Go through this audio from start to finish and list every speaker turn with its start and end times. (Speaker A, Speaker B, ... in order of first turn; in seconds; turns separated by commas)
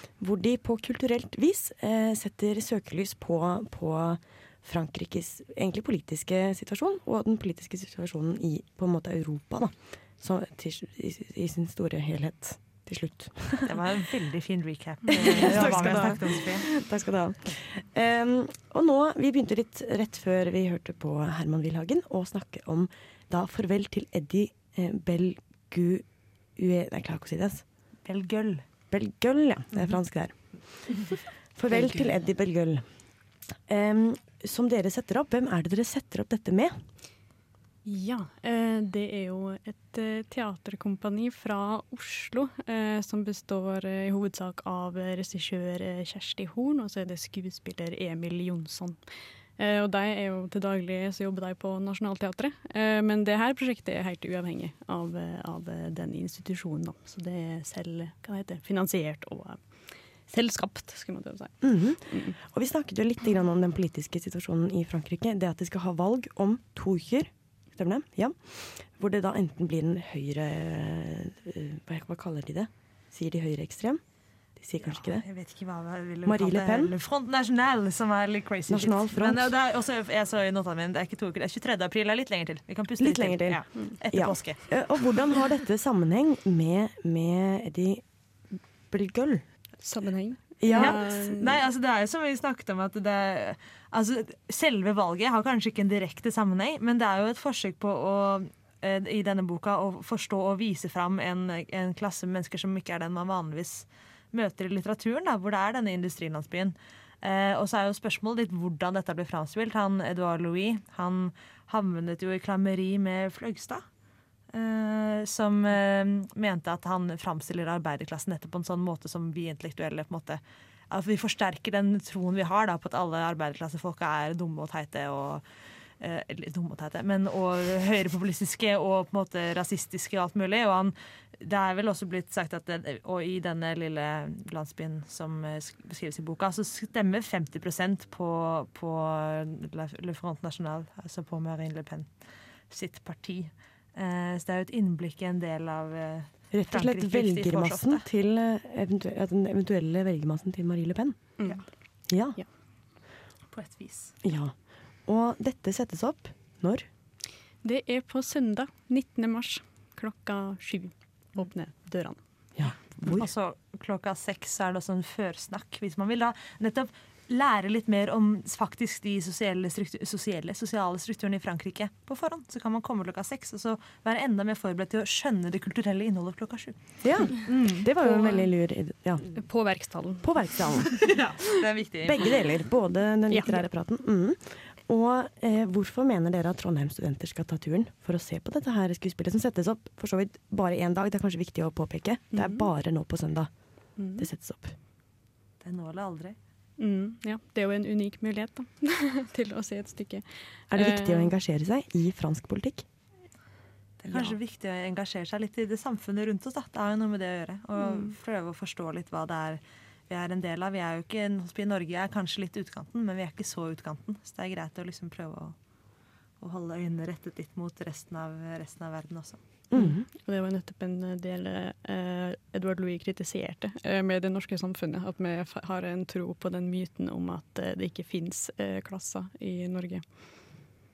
Speaker A: 0.2-13.8, Speaker B: 13.6-16.7, Speaker A: 15.1-26.0, Speaker A: 26.6-27.6, Speaker B: 28.1-28.6, Speaker A: 28.9-30.4, Speaker A: 31.6-32.8, Speaker A: 33.7-36.8, Speaker C: 37.9-62.4, Speaker A: 61.6-74.0, Speaker A: 74.6-75.2, Speaker B: 74.8-84.7, Speaker A: 76.2-76.9, Speaker A: 78.7-79.5, Speaker A: 83.0-88.0, Speaker A: 88.9-89.4, Speaker C: 89.8-91.6, Speaker A: 90.6-91.2, Speaker B: 90.7-113.8, Speaker B: 114.5-125.4, Speaker B: 126.0-142.1, Speaker B: 142.7-148.1, Speaker A: 146.5-151.3, Speaker C: 151.4-151.7, Speaker A: 152.1-152.4, Speaker B: 153.5-154.1, Speaker A: 154.2-156.9, Speaker C: 157.6-162.2, Speaker A: 162.6-163.2, Speaker B: 163.1-176.8, Speaker A: 177.0-179.2, Speaker C: 177.5-178.5, Speaker C: 179.2-180.9, Speaker A: 180.2-181.0, Speaker B: 181.0-182.3, Speaker A: 182.0-193.5, Speaker C: 183.3-183.6, Speaker C: 192.3-192.7, Speaker C: 193.9-194.3, Speaker A: 194.2-194.7, Speaker B: 195.6-196.3, Speaker C: 196.8-201.3, Speaker A: 200.7-202.8, Speaker B: 204.0-215.6, Speaker B: 216.4-219.4, Speaker A: 219.7-220.1, Speaker C: 219.7-230.7